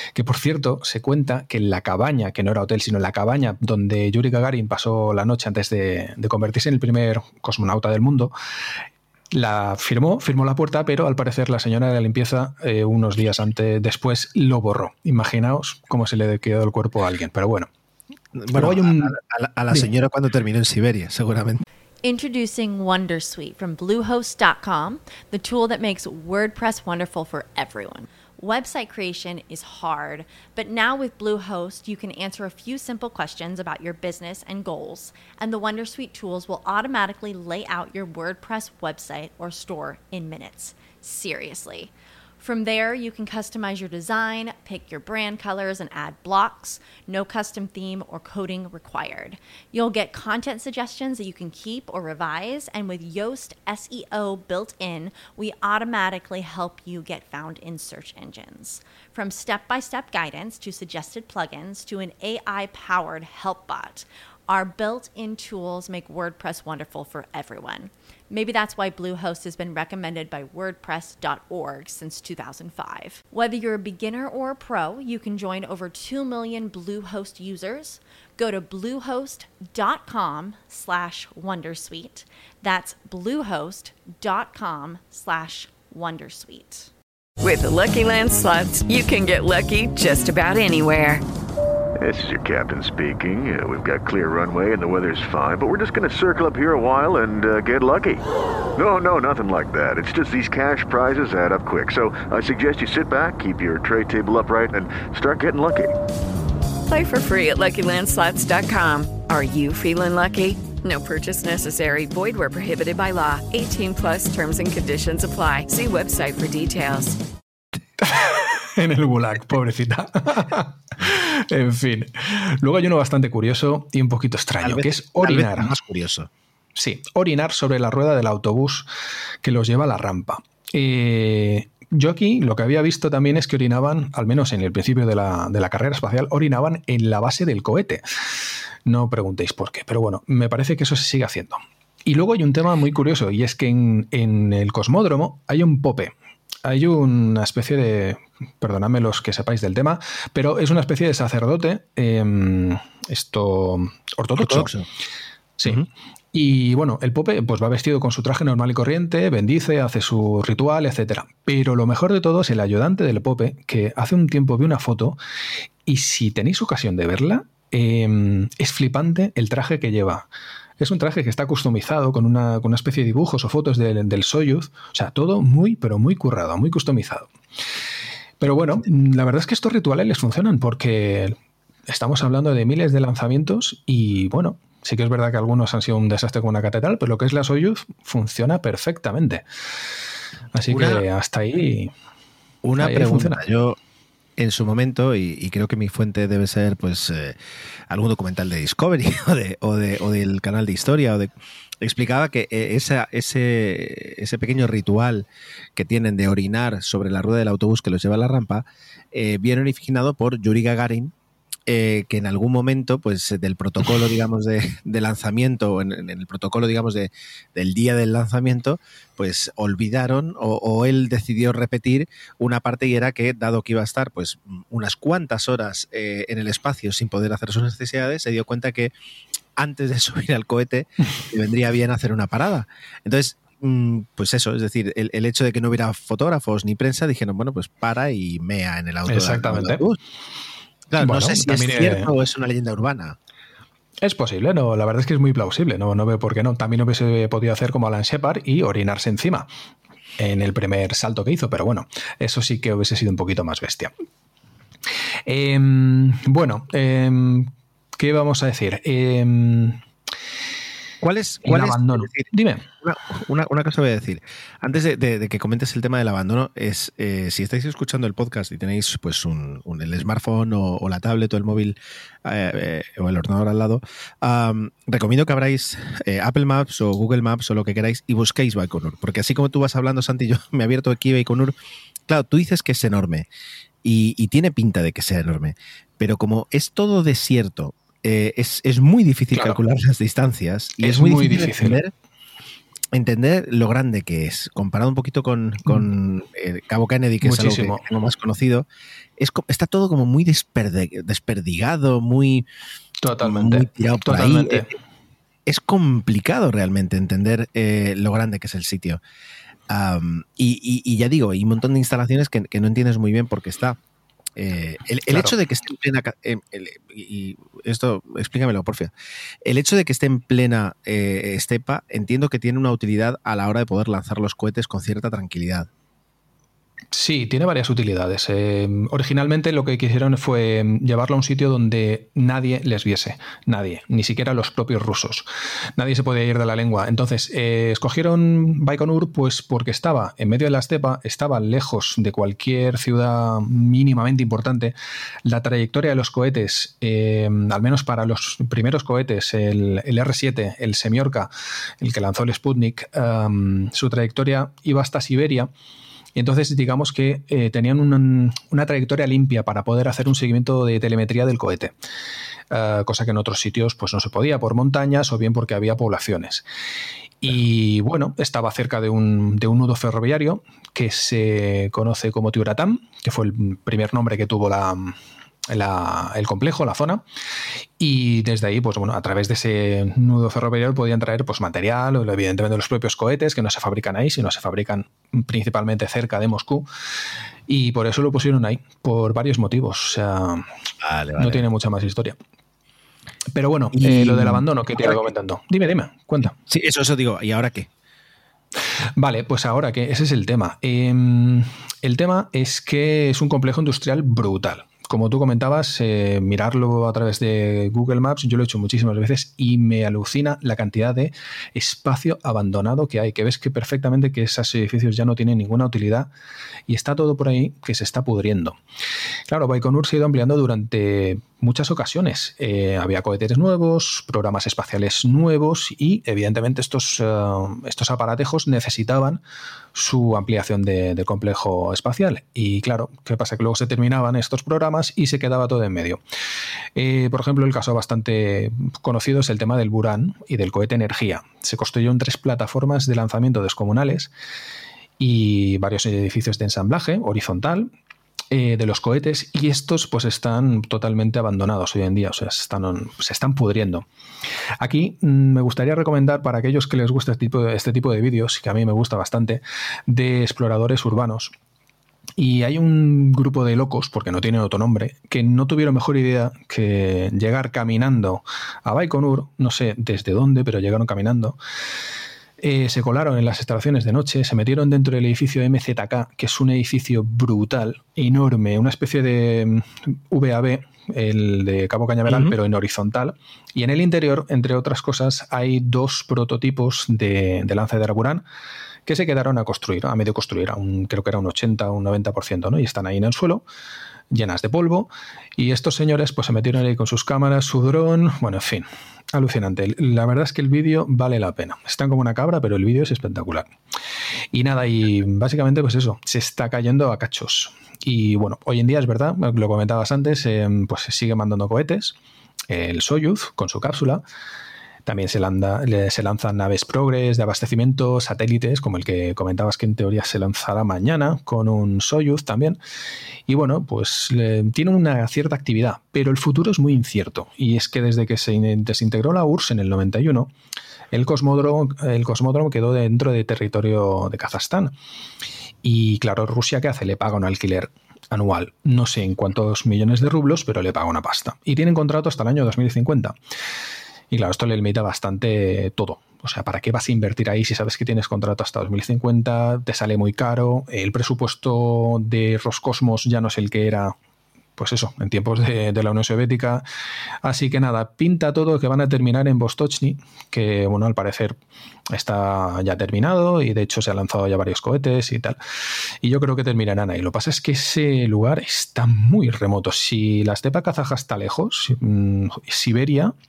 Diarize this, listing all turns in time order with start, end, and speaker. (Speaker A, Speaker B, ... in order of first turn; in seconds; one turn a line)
Speaker A: 0.1-8.3
Speaker A: 9.3-17.7
Speaker B: 18.4-21.6
Speaker A: 18.5-19.1
Speaker C: 22.0-86.9
Speaker D: 87.4-91.2
Speaker E: 92.0-98.2
Speaker E: 98.7-106.0
Speaker D: 106.9-117.2
Speaker A: 118.0-125.7
Speaker B: 124.6-126.3
Speaker A: 126.7-128.9
Speaker A: 129.4-138.0
Speaker A: 138.8-146.1
Speaker A: 146.6-154.7
Speaker B: 154.4-154.8
Speaker A: 155.6-165.2
Speaker A: 165.8-170.3
Speaker A: 170.8-177.3
Speaker A: 178.4-181.4
Speaker A: 181.9-189.4
Speaker A: 190.5-191.9
Speaker B: 190.7-191.0
Speaker B: 192.6-193.8
Speaker A: 192.8-193.4
Speaker B: 194.4-197.4
Speaker B: 197.9-211.1
Speaker B: 211.7-228.9
Speaker B: 229.6-240.0
Speaker A: 239.1-239.8
Speaker B: 240.9-243.2
Speaker A: 241.0-242.1
Speaker A: 244.0-249.5
Speaker A: 250.2-253.9
Speaker A: 255.3-259.8
Speaker B: 261.0-281.5
Speaker A: 261.4-262.6
Speaker B: 282.1-283.3
Speaker B: 283.8-291.9
Speaker A: 289.3-289.6
Speaker A: 290.8-291.8
Speaker B: 292.9-298.7
Speaker A: 297.2-297.8
Speaker B: 299.2-302.4
Speaker A: 303.0-304.7
Speaker B: 303.2-304.7
Speaker B: 305.4-309.0
Speaker B: 309.7-313.8
Speaker B: 314.4-318.9
Speaker A: 315.1-315.3
Speaker B: 319.4-325.7
Speaker A: 326.9-355.5
Speaker A: 356.1-361.7
Speaker A: 362.5-366.4
Speaker A: 367.2-375.0
Speaker A: 375.5-377.0
Speaker A: 377.8-386.7
Speaker A: 387.5-390.5
Speaker B: 390.8-391.4
Speaker A: 391.2-392.2
Speaker A: 393.3-396.3
Speaker B: 393.7-395.1
Speaker B: 396.5-397.7
Speaker A: 399.0-416.1
Speaker A: 416.7-418.6
Speaker A: 419.3-429.2
Speaker A: 429.7-436.0
Speaker A: 436.7-444.1
Speaker A: 445.0-447.7
Speaker A: 448.3-453.9
Speaker A: 454.6-461.3
Speaker A: 462.2-471.4
Speaker A: 472.4-488.2
Speaker B: 482.1-482.3
Speaker A: 488.9-493.4
Speaker A: 494.1-503.5
Speaker A: 504.3-511.9
Speaker A: 512.5-514.0
Speaker A: 514.9-522.6
Speaker A: 523.3-530.3
Speaker A: 530.9-534.7
Speaker A: 535.6-543.2
Speaker A: 544.1-553.9
Speaker A: 554.6-556.6
Speaker A: 557.2-561.4
Speaker A: 561.9-565.4
Speaker A: 566.0-573.1